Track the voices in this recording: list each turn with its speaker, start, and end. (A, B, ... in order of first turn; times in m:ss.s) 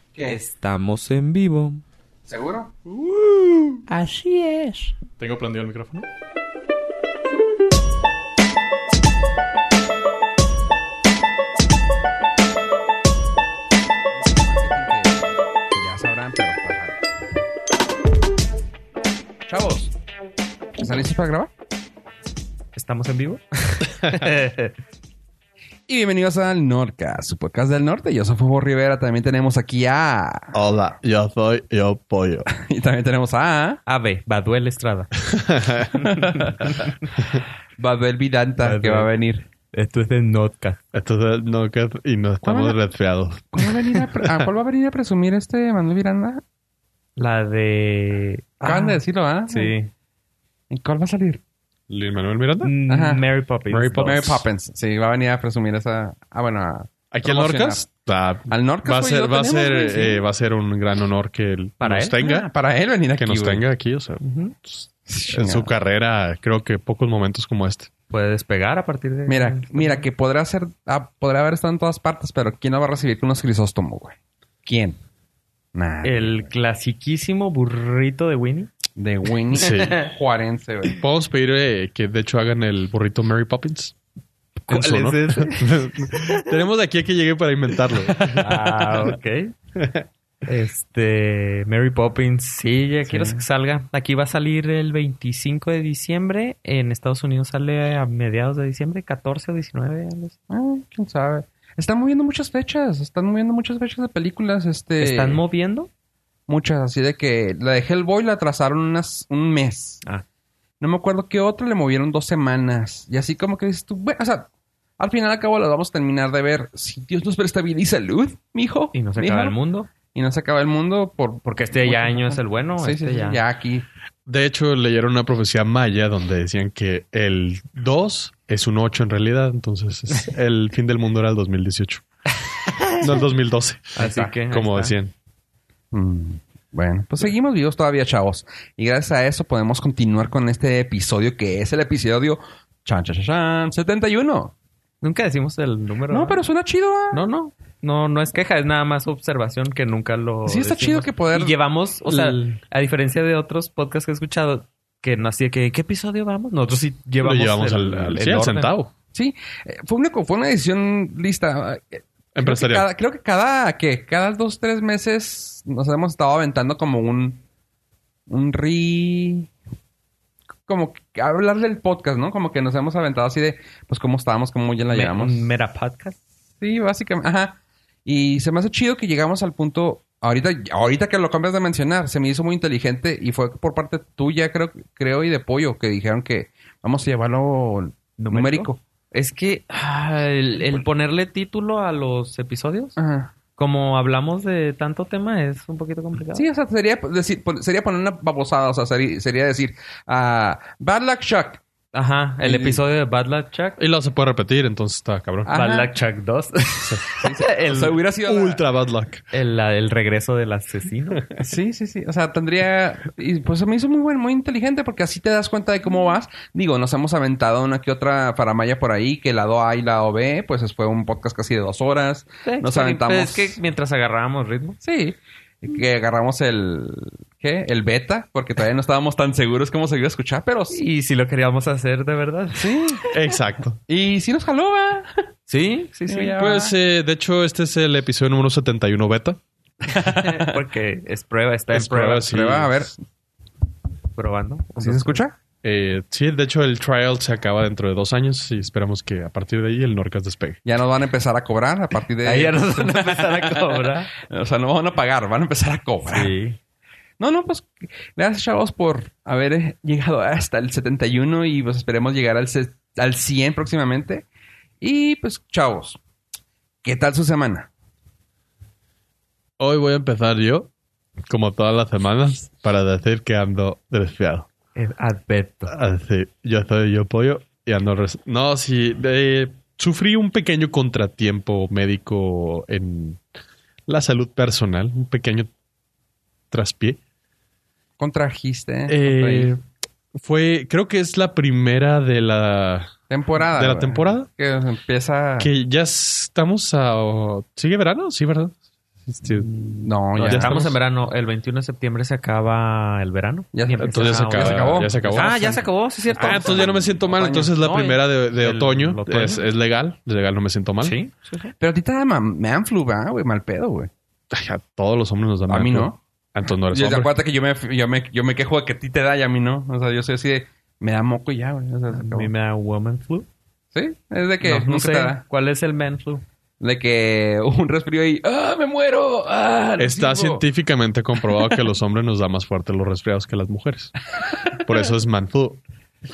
0:00.2-0:01.8 A
0:02.3-0:02.7 B
0:03.9-0:05.0 A
0:05.2-0:06.1 C
0:14.2-0:17.0 B
0:19.5-0:19.9 B
0:20.8-0:21.5 B
0:22.8-0:24.8 D
0:25.9-0:30.5 B
0:30.5-0:32.5 C
0:32.5-0:33.8 B
0:33.9-0:35.1 D
0:35.3-0:36.0 C
0:36.0-0:36.7 B
0:36.3-0:36.9 D
0:37.8-0:39.5 B
0:38.6-0:39.1 D
0:39.7-0:40.8 D
0:40.9-0:44.5 C
0:42.4-0:42.8 B
0:43.5-0:46.4 B
0:47.2-0:49.9 D
0:48.6-0:49.8 B
0:50.7-0:51.4 B
0:51.9-0:52.7 C
0:52.6-0:54.2 D
0:52.9-0:53.2 B
0:53.7-0:54.4 C
0:54.0-0:57.9 B
0:57.1-1:02.5 C
0:58.5-1:00.2 B
1:01.8-1:02.2 D
1:02.2-1:03.6 B
1:03.2-1:07.9 C
1:04.2-1:04.5 D
1:05.1-1:05.7 B
1:08.1-1:10.1 D
1:09.3-1:15.0 B
1:15.8-1:16.5 B
1:16.0-1:18.7 D
1:19.0-1:21.0 B
1:19.5-1:20.0 C
1:19.6-1:20.1 D
1:21.0-1:24.0 C
1:24.7-1:26.4 D
1:24.7-1:29.1 C
1:28.2-1:29.5 D
1:29.8-1:30.0 C
1:30.5-1:40.4 D
1:33.1-1:33.4 B
1:40.5-1:45.4 B
1:45.0-1:45.9 D
1:46.5-1:50.0 B
1:50.8-1:54.5 B
1:55.0-1:59.6 B
1:58.9-1:59.9 D
2:00.1-2:03.8 B
2:01.4-2:03.4 D
2:04.3-2:12.1 C
2:12.9-2:15.1 C
2:14.0-2:15.0 D
2:15.9-2:24.5 B
2:25.0-2:26.4 D
2:26.1-2:27.2 B
2:27.1-2:38.7 D
2:30.5-2:31.6 B
2:32.1-2:32.4 B
2:37.2-2:38.9 C
2:39.1-2:47.4 B
2:42.4-2:42.9 C
2:48.3-2:49.5 B
2:50.7-2:55.5 B
2:54.9-2:56.2 D
2:56.6-3:08.8 B
3:08.2-3:13.0 D
3:13.0-3:13.3 B
3:13.6-3:16.5 D
3:16.3-3:21.6 B
3:21.9-3:23.8 D
3:22.4-3:22.8 B
3:23.8-3:25.5 C
3:25.5-3:25.9 B
3:25.5-3:28.0 D
3:27.2-3:28.6 B
3:28.2-3:29.2 C
3:29.3-3:31.2 D
3:31.4-3:43.6 B
3:42.4-3:44.8 D
3:44.8-3:50.8 B
3:50.7-3:52.9 D
3:52.6-3:53.0 B
3:53.1-3:53.8 C
3:53.9-3:55.1 B
3:55.5-3:56.4 D
3:56.1-3:56.7 B
3:56.4-3:59.4 C
3:59.9-4:00.6 B
4:00.0-4:02.3 D
4:01.7-4:02.9 C
4:02.1-4:03.0 B
4:04.2-4:05.2 D
4:04.8-4:05.3 B
4:05.6-4:10.6 C
4:10.6-4:16.3 B
4:12.2-4:14.1 D
4:16.1-4:16.6 D
4:17.2-4:24.2 B
4:24.8-4:26.0 B
4:26.8-4:27.7 B
4:29.6-4:30.7 C
4:31.3-4:34.5 C
4:34.8-4:35.7 D
4:35.7-4:43.2 C
4:43.9-4:45.5 C
4:46.5-4:47.0 C
4:48.0-4:49.6 B
4:48.9-4:49.6 C
4:50.2-4:54.3 C
4:53.1-4:55.5 B
4:55.4-4:59.5 C
4:59.3-5:00.6 B
5:00.2-5:06.7 D
5:00.2-5:00.7 C
5:03.5-5:07.6 B
5:03.8-5:05.4 C
5:06.2-5:11.0 C
5:07.6-5:09.5 D
5:10.8-5:11.5 D
5:11.6-5:13.9 B
5:14.3-5:17.1 C
5:15.5-5:16.0 B
5:16.7-5:22.3 B
5:21.9-5:23.3 D
5:23.7-5:25.2 B
5:24.4-5:26.2 D
5:26.6-5:30.4 B
5:29.8-5:34.0 C
5:34.6-5:35.6 C